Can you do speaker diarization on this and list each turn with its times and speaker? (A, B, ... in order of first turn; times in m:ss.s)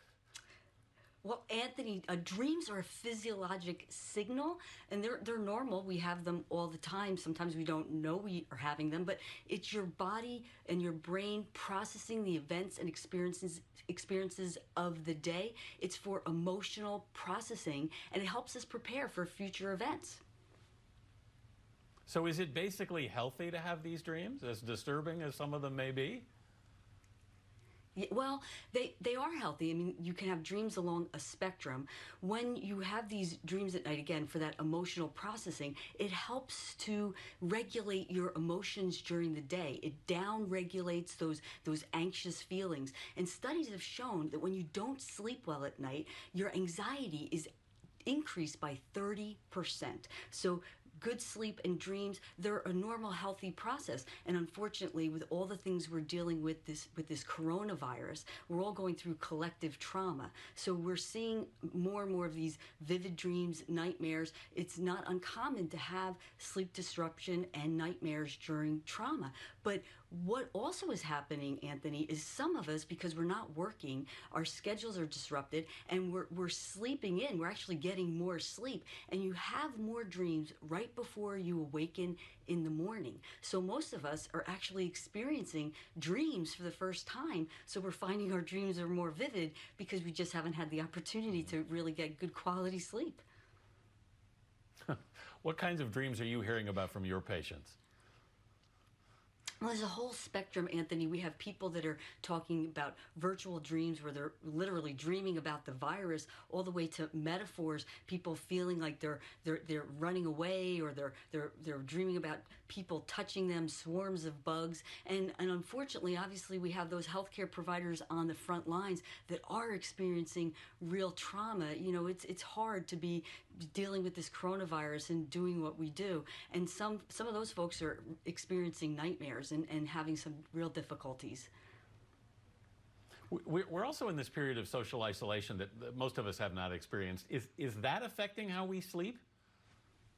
0:01.2-0:20.2 A
0:22.1-0:26.2 B
0:28.0-0:47.5 A
0:48.0-1:33.2 A
1:34.9-1:37.8 B
1:39.6-2:11.5 A
2:13.3-2:19.2 B